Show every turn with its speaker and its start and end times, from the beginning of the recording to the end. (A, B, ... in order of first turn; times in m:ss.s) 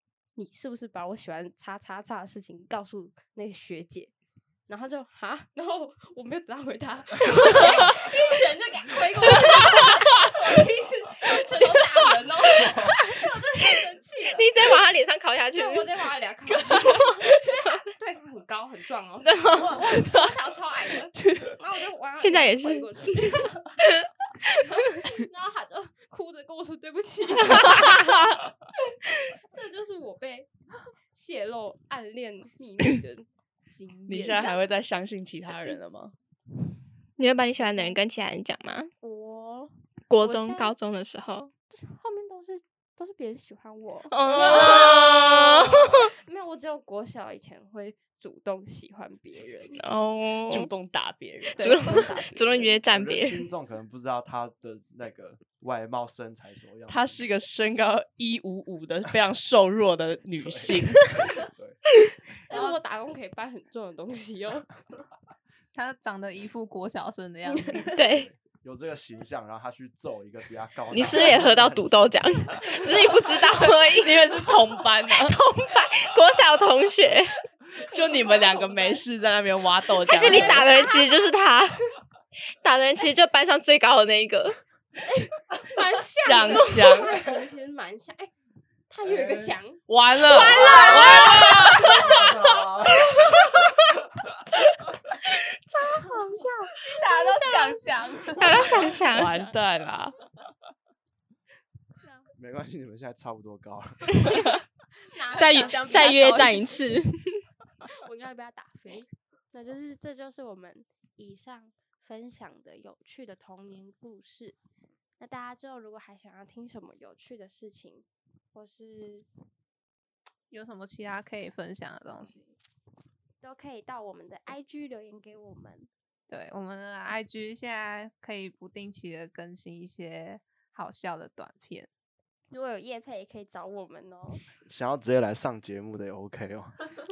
0:00.4-0:04.1 A
0:04.7-0:14.5 A
0:14.4-0:15.9 B
0:15.5-0:23.6 A
0:16.7-0:17.2 B
0:19.2-0:19.9 B
0:22.2-0:24.0 B
0:24.5-0:28.1 A
0:27.6-0:27.9 B
0:29.5-0:30.5 A
0:31.1-0:34.5 A
0:34.1-0:36.1 C
0:37.2-0:38.9 B
0:37.4-0:38.0 A
0:39.0-0:40.8 A
0:40.1-0:41.5 B
0:41.7-0:49.9 A
0:44.1-0:46.1 B
0:44.3-0:45.1 C
0:49.7-0:50.7 B
0:50.5-0:52.2 C
0:51.5-0:52.7 A
0:51.6-0:53.5 B
0:52.8-0:57.2 D
0:56.9-1:01.2 C
1:00.4-1:01.8 D
1:02.5-1:04.7 A
1:02.5-1:02.8 E
1:05.7-1:08.0 E
1:07.5-1:08.0 A
1:07.9-1:08.3 B
1:08.0-1:13.0 D
1:10.9-1:14.6 B
1:13.4-1:15.4 C
1:15.2-1:17.4 B
1:17.8-1:19.0 A
1:17.8-1:20.7 C
1:19.9-1:21.0 A
1:20.1-1:21.8 B
1:22.6-1:24.6 B
1:25.0-1:28.3 A
1:26.2-1:27.1 C
1:28.9-1:32.2 A
1:29.0-1:29.6 D
1:29.9-1:32.1 C
1:30.2-1:32.2 B
1:31.7-1:33.5 D
1:33.0-1:33.8 B
1:35.2-1:39.4 B
1:36.9-1:38.8 E
1:38.4-1:39.6 A
1:39.1-1:40.2 C
1:42.0-1:42.3 A
1:42.4-1:44.6 D
1:45.0-1:46.7 A
1:45.2-1:46.8 E
1:45.3-1:47.4 B
1:48.0-1:54.6 A
1:55.2-1:59.2 A
2:00.5-2:02.5 E
2:03.4-2:05.9 A
2:06.3-2:11.9 E
2:12.5-2:14.4 A
2:14.6-2:16.8 D